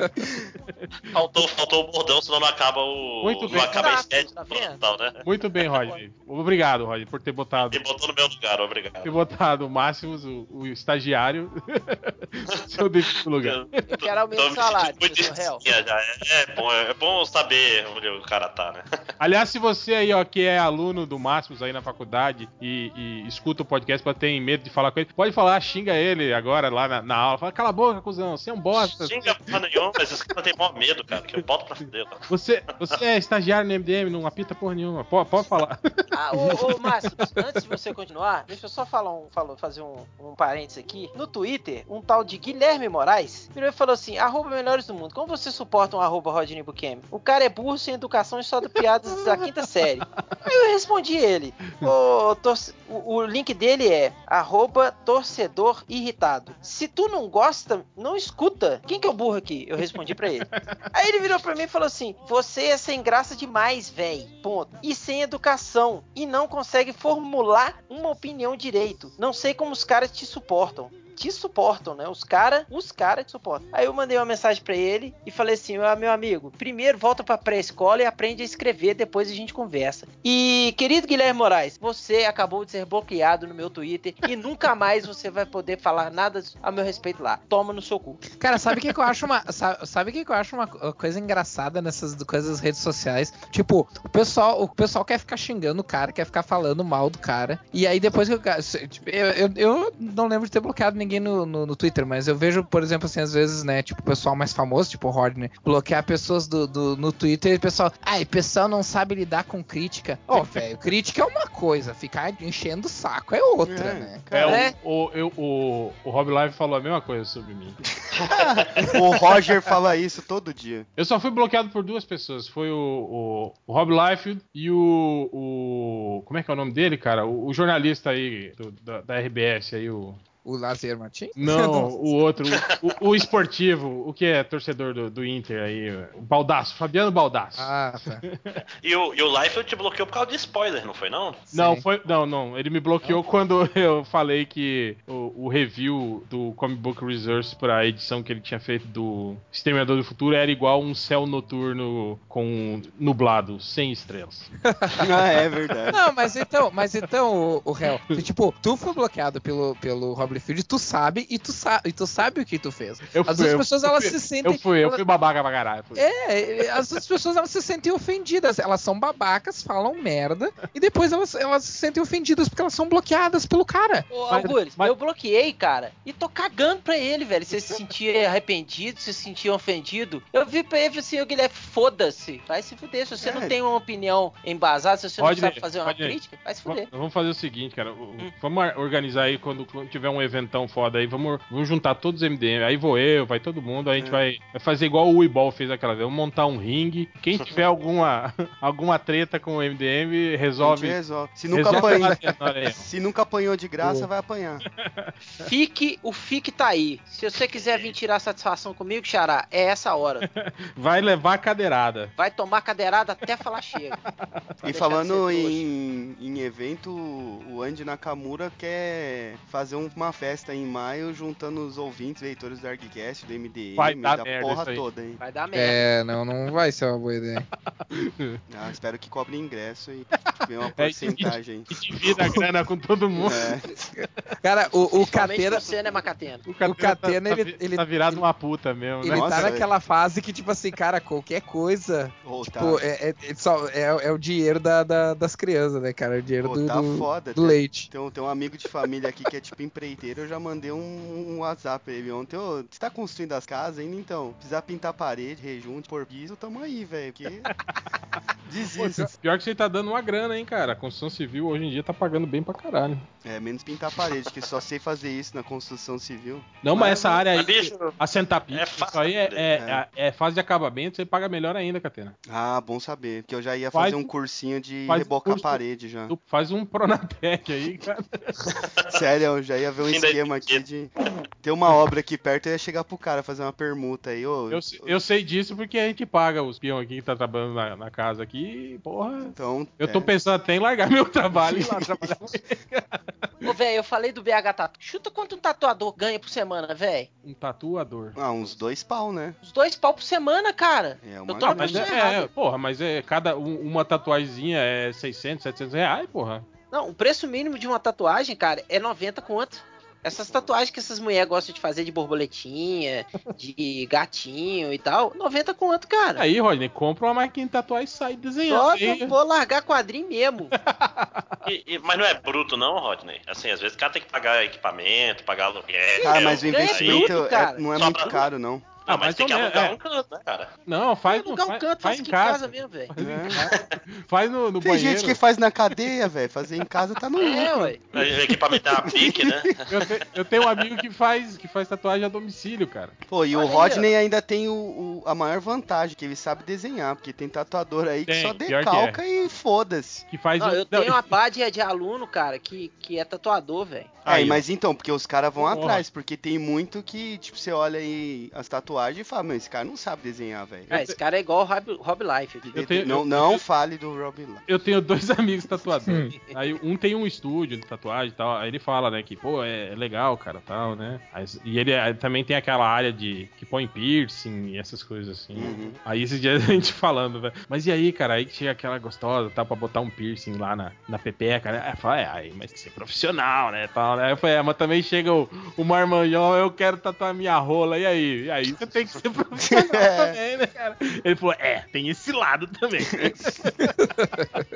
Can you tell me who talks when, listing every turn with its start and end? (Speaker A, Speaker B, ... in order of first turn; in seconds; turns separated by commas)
Speaker A: 0.2-0.5, Speaker B: 0.7-1.1, Speaker C: 1.1-5.2, Speaker B: 3.2-3.9, Speaker D: 3.5-4.8, Speaker B: 5.2-7.8, Speaker C: 7.7-9.2, Speaker B: 9.0-13.9, Speaker C: 13.4-18.8, Speaker D: 13.9-15.6, Speaker B: 19.2-29.5, Speaker C: 28.8-32.3, Speaker B: 32.3-36.0, Speaker D: 36.1-88.2, Speaker B: 49.1-49.5, Speaker B: 60.6-60.8, Speaker E: 88.4-114.3, Speaker A: 113.7-114.7, Speaker B: 114.3-117.8, Speaker D: 114.4-114.8, Speaker A: 118.0-120.9, Speaker B: 121.0-130.2, Speaker E: 130.4-131.9, Speaker B: 131.4-138.6, Speaker E: 137.6-138.2, Speaker C: 138.8-141.4, Speaker E: 141.5-141.8, Speaker B: 141.5-154.5, Speaker E: 154.7-155.0, Speaker A: 155.0-156.0, Speaker E: 155.9-165.0, Speaker B: 163.1-166.1, Speaker E: 165.9-174.1, Speaker D: 174.1-186.9, Speaker B: 174.3-174.9, Speaker A: 183.2-183.6, Speaker B: 185.2-202.9, Speaker A: 200.6-204.7, Speaker B: 203.8-204.1, Speaker B: 204.7-205.1, Speaker D: 205.3-210.3, Speaker C: 207.6-207.9, Speaker B: 210.2-212.1, Speaker D: 212.2-214.0, Speaker A: 214.6-225.2, Speaker D: 214.7-215.6, Speaker B: 223.8-224.8, Speaker D: 225.2-225.9, Speaker E: 225.5-227.5, Speaker B: 227.9-228.4, Speaker A: 228.5-232.4, Speaker B: 230.2-233.6, Speaker A: 233.2-233.8, Speaker E: 234.0-235.7, Speaker D: 235.0-236.4, Speaker B: 236.5-239.6, Speaker E: 236.7-238.2, Speaker E: 239.0-247.9, Speaker A: 239.1-239.7, Speaker A: 242.2-242.9, Speaker A: 246.4-257.5, Speaker B: 257.5-257.8, Speaker A: 258.5-259.1, Speaker B: 258.8-263.1, Speaker A: 263.2-267.3, Speaker B: 266.6-272.2, Speaker C: 267.3-268.0, Speaker C: 268.5-269.5, Speaker A: 269.6-269.8, Speaker A: 272.3-276.1, Speaker B: 273.7-274.1, Speaker B: 274.9-278.4, Speaker C: 278.6-279.1, Speaker A: 278.9-285.0, Speaker C: 279.8-281.2, Speaker B: 284.5-293.0, Speaker A: 289.3-290.1, Speaker A: 291.4-292.4, Speaker D: 293.4-297.1, Speaker B: 297.2-298.2, Speaker A: 298.2-299.4, Speaker D: 299.4-302.3, Speaker A: 301.0-301.9, Speaker B: 301.4-306.5, Speaker D: 306.7-316.2, Speaker B: 316.2-319.1, Speaker D: 318.5-320.5, Speaker B: 320.6-321.3, Speaker C: 321.4-327.2, Speaker D: 326.0-327.7, Speaker A: 326.0-328.8, Speaker C: 327.8-328.3, Speaker B: 328.9-329.8, Speaker C: 328.9-330.5, Speaker B: 330.7-335.2, Speaker D: 331.1-332.9, Speaker A: 333.0-333.5, Speaker A: 334.6-339.6, Speaker D: 337.2-337.8, Speaker C: 337.9-339.7, Speaker B: 339.7-343.0, Speaker A: 343.1-350.1, Speaker D: 343.4-343.9, Speaker B: 348.1-349.0, Speaker B: 350.1-351.0, Speaker D: 350.4-353.9, Speaker A: 354.1-360.8, Speaker B: 354.1-354.4, Speaker B: 355.4-355.9, Speaker D: 360.7-362.5, Speaker A: 362.4-364.4, Speaker B: 362.5-363.4, Speaker B: 364.5-393.8, Speaker E: 365.9-366.1, Speaker A: 375.3-375.8, Speaker A: 389.4-390.2, Speaker A: 392.9-393.4, Speaker E: 393.8-394.4